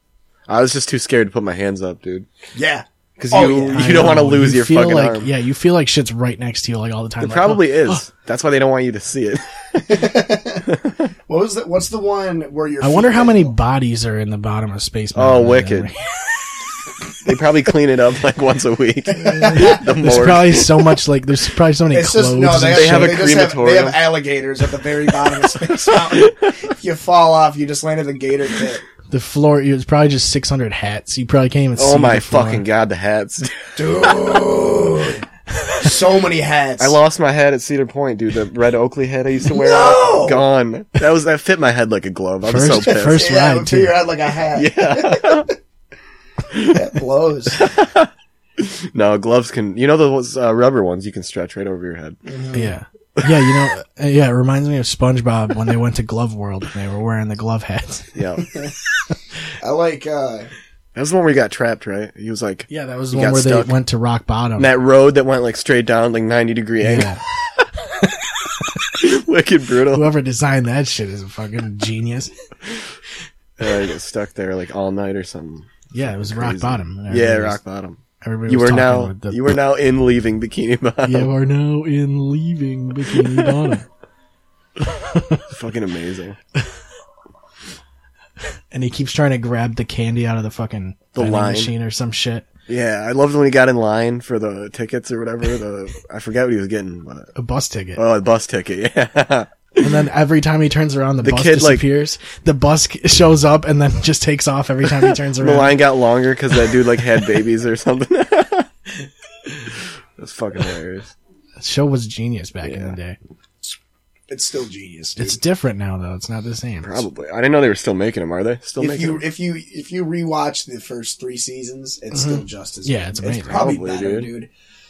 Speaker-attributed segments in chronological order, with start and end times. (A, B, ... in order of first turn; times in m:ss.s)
0:00.5-0:02.3 A
0:02.6-0:04.2 B
0:03.2-0:05.3 A
0:03.7-0:08.1 C
0:07.2-0:10.1 A
0:09.9-0:10.7 B
0:10.7-0:11.1 A
0:11.3-0:13.6 B
0:12.8-0:16.4 C
0:15.2-0:15.9 A
0:17.2-0:21.0 A
0:19.1-0:20.2 B
0:19.3-0:23.2 C
0:21.9-0:28.8 B
0:22.7-0:24.2 A
0:25.5-0:26.5 A
0:29.1-0:32.6 C
0:31.8-0:34.1 A
0:33.8-0:35.2 B
0:35.8-0:37.0 B
0:36.8-0:43.3 A
0:39.4-0:40.4 B
0:42.4-0:44.0 C
0:42.8-0:45.6 B
0:44.6-0:45.5 A
0:46.5-0:46.8 A
0:46.6-0:47.7 B
0:47.6-0:52.2 A
0:52.2-0:52.7 B
0:52.5-0:58.2 C
0:53.2-0:53.7 A
0:58.2-0:58.4 A
0:59.6-1:00.5 B
1:01.0-1:03.8 A
1:02.7-1:04.7 C
1:04.6-1:07.2 A
1:06.8-1:07.2 C
1:09.0-1:10.1 A
1:09.9-1:12.3 C
1:13.6-1:21.3 A
1:15.9-1:17.6 C
1:18.2-1:19.6 C
1:21.0-1:23.8 C
1:23.1-1:23.5 A
1:25.1-1:25.4 C
1:25.5-1:26.4 A
1:28.7-1:32.5 C
1:31.2-1:31.7 A
1:32.7-1:37.3 A
1:37.4-1:38.0 C
1:38.0-1:40.1 A
1:39.8-1:45.8 C
1:41.2-1:41.8 A
1:45.0-1:48.7 A
1:50.2-1:51.1 A
1:51.6-1:53.2 C
1:52.6-1:53.0 A
1:54.3-1:55.4 B
1:55.2-1:57.1 C
1:56.8-1:59.2 A
1:58.8-2:04.5 B
2:02.1-2:03.7 C
2:03.5-2:04.3 A